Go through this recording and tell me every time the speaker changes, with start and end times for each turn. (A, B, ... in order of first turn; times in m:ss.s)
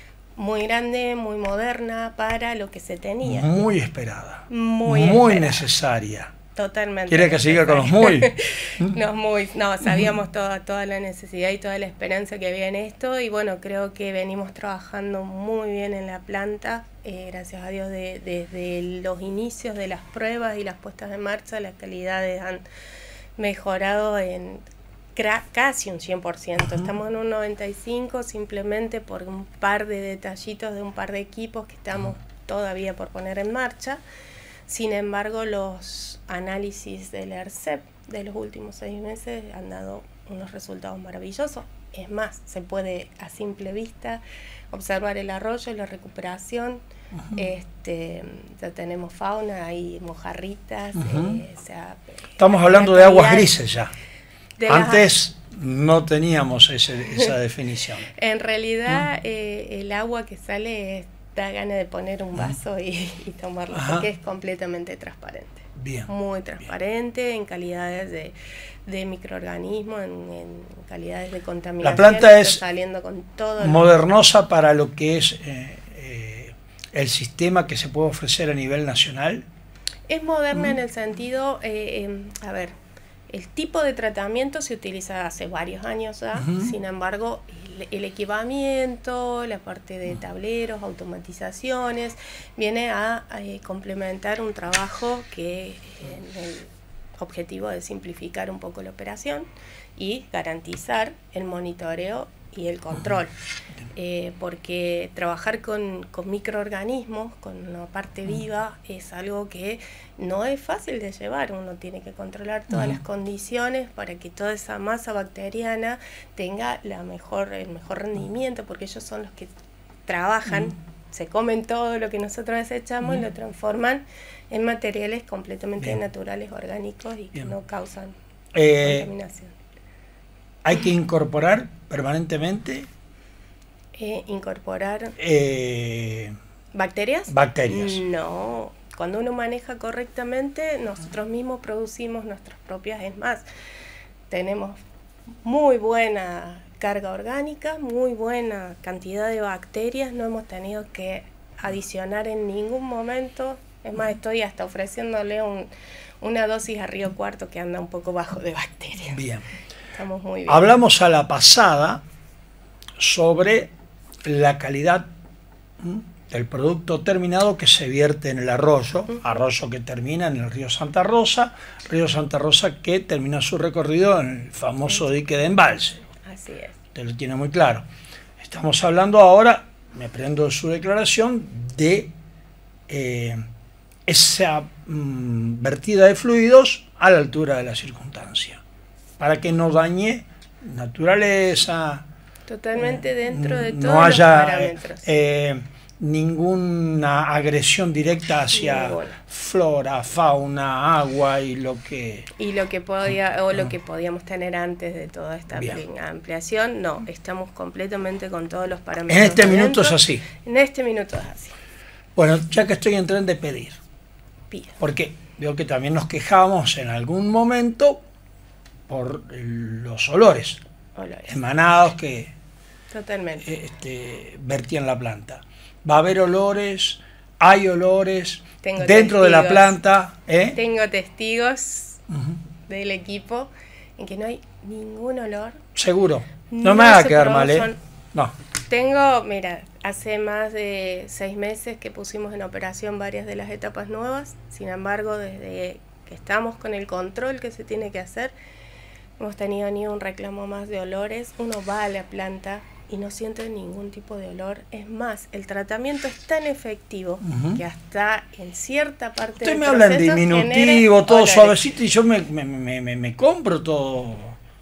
0:00.4-0:03.5 A
0:03.2-0:06.4 B
0:04.5-0:05.7 A
0:06.5-0:22.6 A
0:07.1-0:09.0 B
0:23.4-0:24.6 A
0:25.1-0:34.0 A
0:34.7-0:46.8 A
0:47.1-0:47.5 B
0:47.3-0:53.5 A
0:50.9-0:51.4 B
0:52.4-0:53.9 B
0:54.6-0:55.1 A
0:54.7-0:58.1 B
0:58.1-1:08.3 A
1:03.7-1:04.1 B
1:05.8-1:06.1 B
1:08.9-1:13.9 A
1:11.8-1:12.6 B
1:13.6-1:19.5 B
1:20.1-1:22.7 A
1:23.3-1:43.3 A
1:26.3-1:26.8 B
1:43.9-1:59.5 A
1:52.7-1:53.0 B
2:00.1-2:08.2 A
2:00.5-2:00.7 B
2:08.5-2:09.1 B
2:08.8-2:09.5 A
2:10.6-2:12.9 B
2:13.9-2:15.1 A
2:15.2-2:16.3 B
2:16.7-2:23.4 A
2:17.3-2:18.0 B
2:24.3-2:24.8 A
2:25.4-2:39.2 A
2:39.0-2:39.5 B
2:39.9-2:40.7 A
2:40.5-2:42.0 B
2:43.0-2:43.7 B
2:44.2-2:45.1 B
2:45.8-2:56.1 B
2:56.2-2:56.8 A
2:56.9-2:57.8 B
2:58.4-3:02.1 B
3:02.9-3:03.4 B
3:04.1-3:08.6 B
3:09.2-3:12.1 B
3:12.5-3:15.0 A
3:12.8-3:22.3 B
3:18.5-3:19.2 A
3:22.4-3:31.5 A
3:25.5-3:25.8 B
3:29.1-3:30.2 B
3:32.2-3:33.8 B
3:34.5-3:34.8 A
3:34.8-3:38.0 B
3:38.9-3:40.6 B
3:40.9-3:41.4 A
3:41.3-3:42.3 B
3:42.9-3:43.4 A
3:43.4-3:50.6 B
3:48.6-3:49.8 A
3:50.5-3:52.0 A
3:52.1-3:52.4 B
3:52.7-3:55.6 A
3:55.8-3:58.3 B
3:56.5-3:57.8 A
3:58.7-4:08.3 A
4:09.2-4:21.6 A
4:17.2-4:17.6 B
4:19.4-4:24.4 B